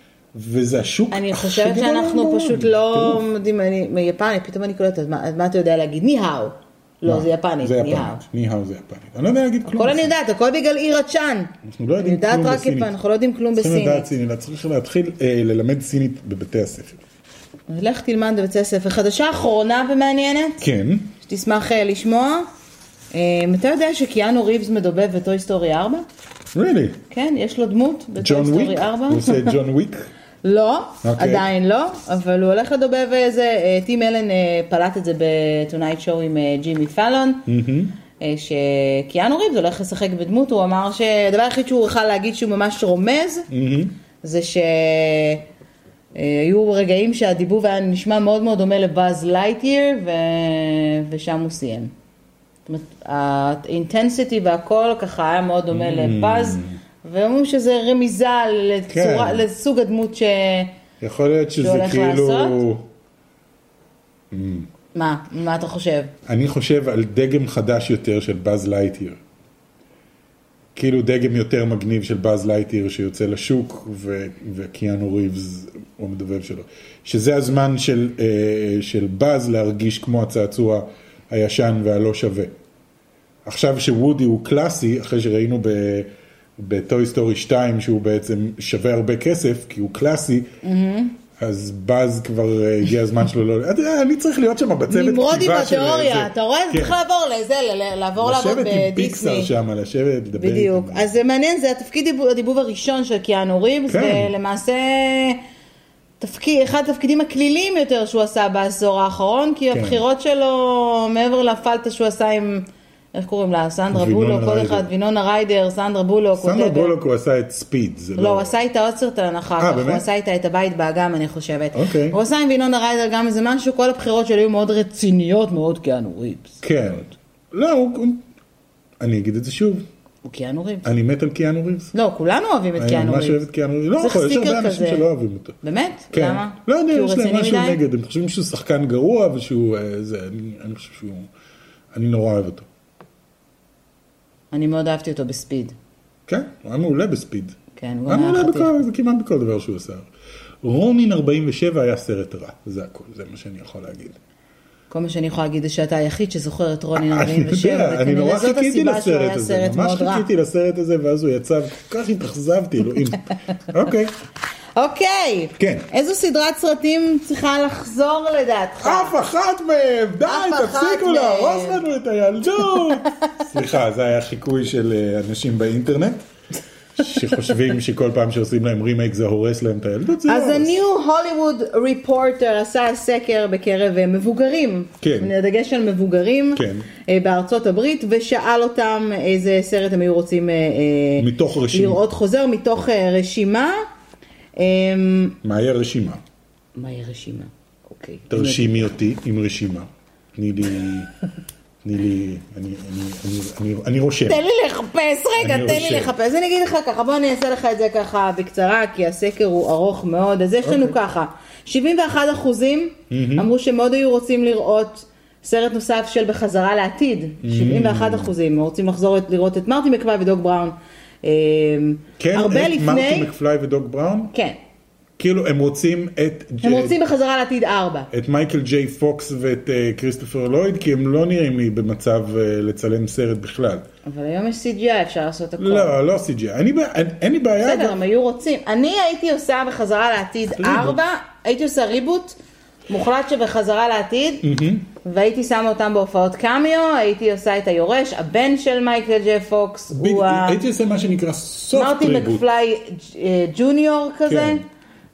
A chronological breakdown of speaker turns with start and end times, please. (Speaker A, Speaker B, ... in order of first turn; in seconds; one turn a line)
Speaker A: 0.3-3.3
Speaker B: 1.1-8.2
Speaker A: 7.0-10.1
Speaker B: 9.7-14.1
Speaker A: 11.6-12.9
Speaker A: 13.6-17.0
Speaker B: 17.7-20.6
Speaker A: 20.6-21.1
Speaker B: 21.2-22.5
Speaker B: 23.1-26.1
Speaker A: 26.5-27.0
Speaker B: 27.1-29.6
Speaker A: 28.2-30.1
Speaker B: 30.4-37.5
Speaker A: 31.0-31.5
Speaker A: 37.5-38.0
Speaker B: 38.2-43.5
Speaker A: 43.5-44.0
Speaker B: 44.2-45.4
Speaker B: 46.1-51.9
Speaker B: 52.7-60.7
Speaker A: 55.7-56.8
Speaker A: 58.9-59.5
Speaker A: 61.0-62.9
Speaker B: 61.6-62.6
Speaker A: 64.3-64.7
Speaker B: 65.0-66.1
Speaker A: 66.3-69.2
Speaker A: 70.8-82.5
Speaker A: 83.5-90.5
Speaker B: 90.6-91.2
Speaker A: 91.4-97.0
Speaker B: 94.9-99.5
Speaker A: 98.2-101.1
Speaker B: 100.4-105.4
Speaker A: 103.9-104.3
Speaker B: 106.2-117.0
Speaker A: 109.7-110.0
Speaker A: 113.9-114.9
Speaker A: 116.4-118.5
Speaker B: 118.2-126.6
Speaker A: 119.6-120.0
Speaker A: 121.7-122.2
Speaker A: 126.6-128.2
Speaker A: 129.0-129.9
Speaker B: 130.2-130.9
Speaker A: 130.8-131.9
Speaker B: 131.9-133.4
Speaker A: 132.8-135.6
Speaker B: 134.0-135.1
Speaker B: 135.6-137.8
Speaker A: 136.1-141.3
Speaker A: 141.9-142.7
Speaker B: 144.5-145.8
Speaker A: 146.3-150.1
Speaker B: 147.8-148.7
Speaker A: 150.6-154.2
Speaker B: 154.9-160.3
Speaker A: 156.9-164.1
Speaker B: 164.8-169.2
Speaker A: 165.6-165.9
Speaker A: 168.8-176.2
Speaker B: 170.3-171.8
Speaker B: 172.6-173.5
Speaker A: 177.0-180.8
Speaker B: 180.3-193.8
Speaker A: 185.0-185.3
Speaker A: 186.6-186.9
Speaker A: 191.2-192.0
Speaker B: 194.6-195.4
Speaker A: 195.4-196.2
Speaker B: 196.8-198.9
Speaker A: 198.3-201.1
Speaker A: 201.8-204.4
Speaker B: 204.3-223.3
Speaker A: 205.4-206.1
Speaker A: 210.6-210.9
Speaker A: 213.1-213.5
Speaker A: 217.4-218.3
Speaker A: 222.2-224.3
Speaker B: 224.3-224.6
Speaker A: 225.2-227.0
Speaker B: 226.6-228.1
Speaker A: 228.1-233.8
Speaker B: 234.1-236.0
Speaker A: 235.6-238.0
Speaker B: 237.6-242.4
Speaker A: 240.5-241.0
Speaker B: 242.9-244.5
Speaker A: 244.4-244.9
Speaker B: 245.0-250.6
Speaker A: 249.9-252.4
Speaker B: 251.7-254.6
Speaker A: 254.3-254.6